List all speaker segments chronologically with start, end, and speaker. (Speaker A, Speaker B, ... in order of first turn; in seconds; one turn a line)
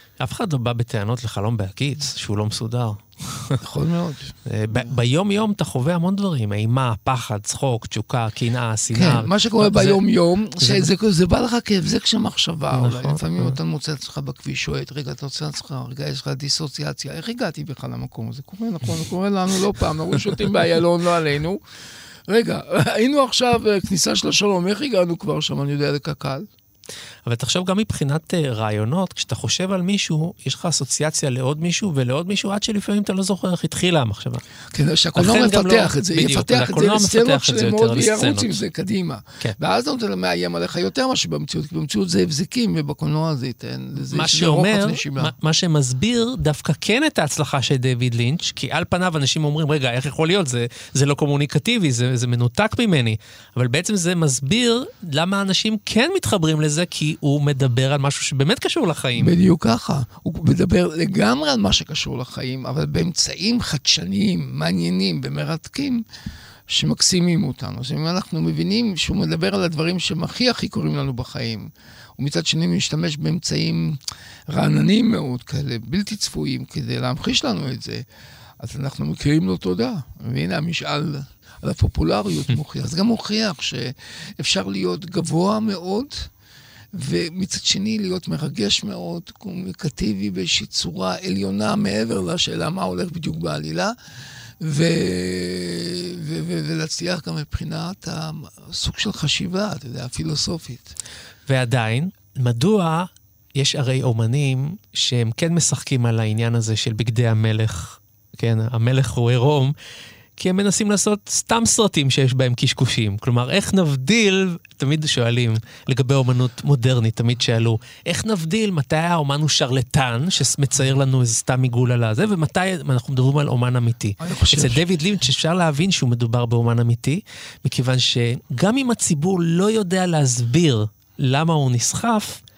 Speaker A: 0.2-3.6
Speaker B: 3.6-4.9
Speaker A: 4.5-10.0
Speaker B: 8.9-21.6
Speaker A: 10.6-10.9
Speaker A: 12.7-13.6
Speaker B: 22.3-26.5
Speaker A: 27.3-34.4
Speaker B: 34.7-45.3
Speaker A: 35.2-38.6
Speaker A: 44.1-59.3
Speaker B: 59.2-66.0
Speaker B: 66.7-78.0
Speaker B: 78.6-86.3
Speaker B: 86.9-93.9
Speaker B: 94.6-101.0
Speaker A: 101.5-109.7
Speaker A: 110.4-132.4
Speaker B: 124.2-124.8